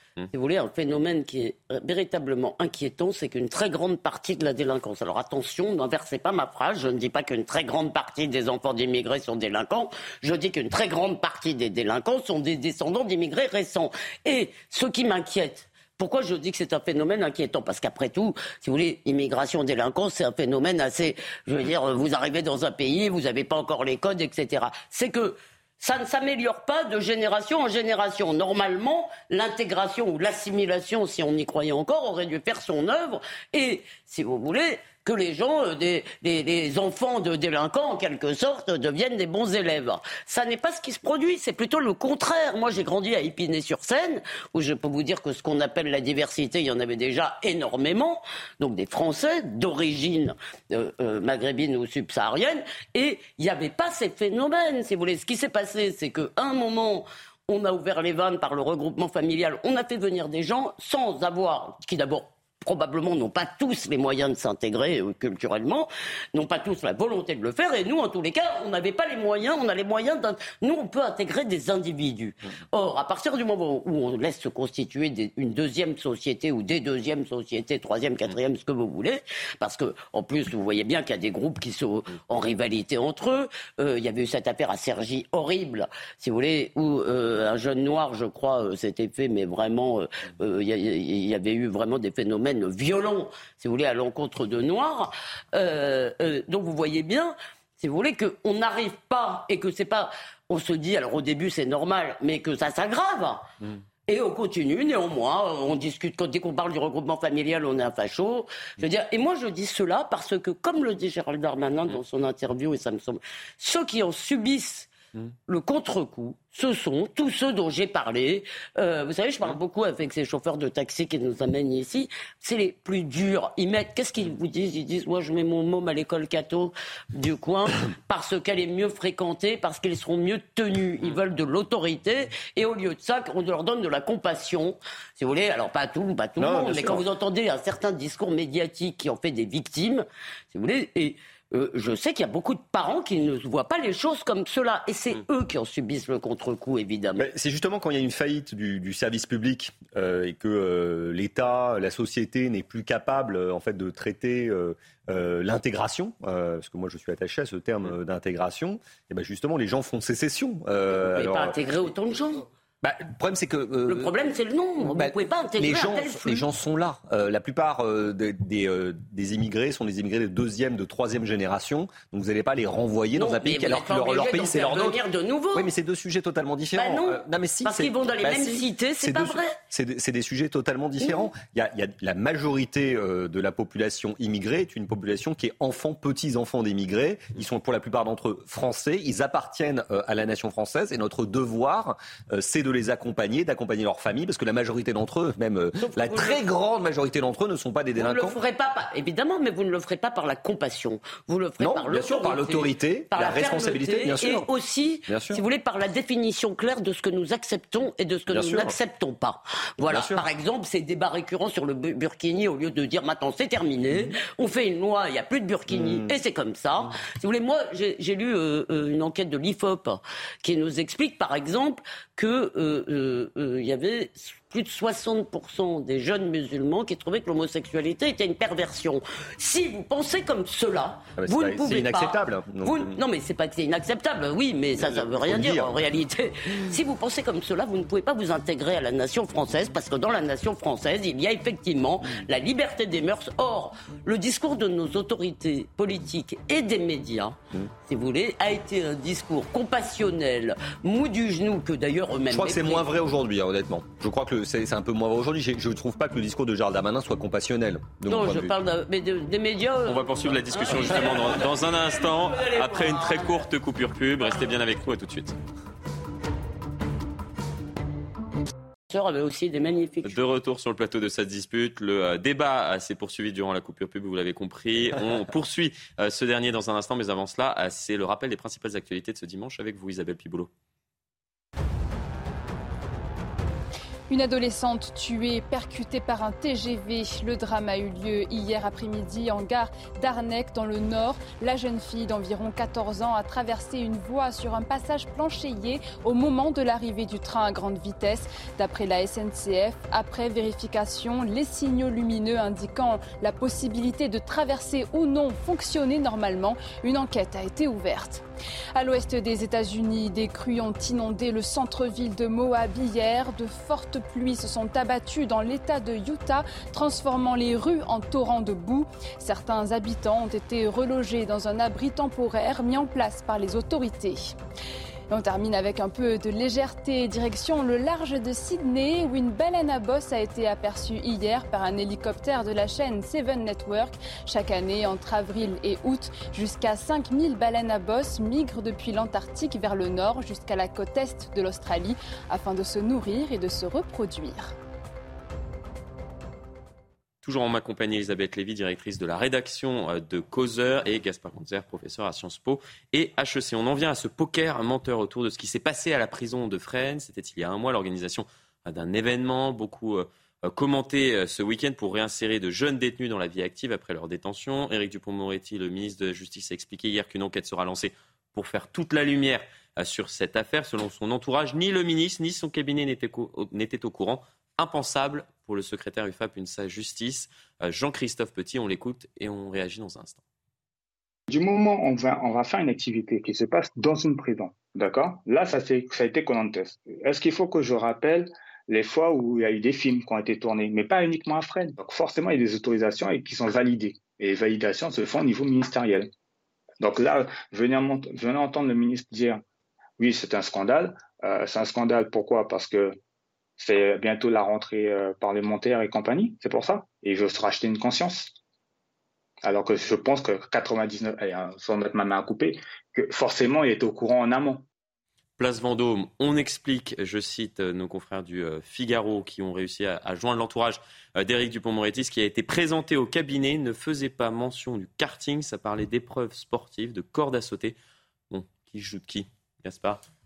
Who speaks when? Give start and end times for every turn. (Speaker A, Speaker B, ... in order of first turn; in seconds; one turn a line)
Speaker A: 0.3-103.5
Speaker A: 104.1-114.9
Speaker A: 115.5-147.3
Speaker B: 136.4-137.0
Speaker B: 147.2-161.6
Speaker A: 161.1-162.4
Speaker B: 162.8-164.1
Speaker A: 163.8-166.4
Speaker B: 164.8-175.0
Speaker A: 173.1-175.7
Speaker B: 175.5-198.4
Speaker A: 176.7-179.6
Speaker A: 195.8-196.4
Speaker A: 198.0-252.9
Speaker B: 201.6-204.5
Speaker B: 205.1-205.4
Speaker B: 208.3-208.7
Speaker B: 209.9-210.2
Speaker B: 215.7-216.1
Speaker B: 231.2-233.0
Speaker B: 234.8-235.8
Speaker B: 252.3-258.5
Speaker A: 258.1-263.4
Speaker C: 259.9-265.3
Speaker A: 268.9-270.2
Speaker C: 270.0-280.5
Speaker D: 284.1-308.2
Speaker D: 308.7-324.3
Speaker D: 325.1-344.5
Speaker C: 347.2-380.2
Speaker E: 381.3-396.1
Speaker E: 396.8-399.4
Speaker E: 400.0-403.0
Speaker E: 403.6-408.4
Speaker E: 409.4-414.6
Speaker C: 415.4-427.7
Speaker C: 428.3-430.0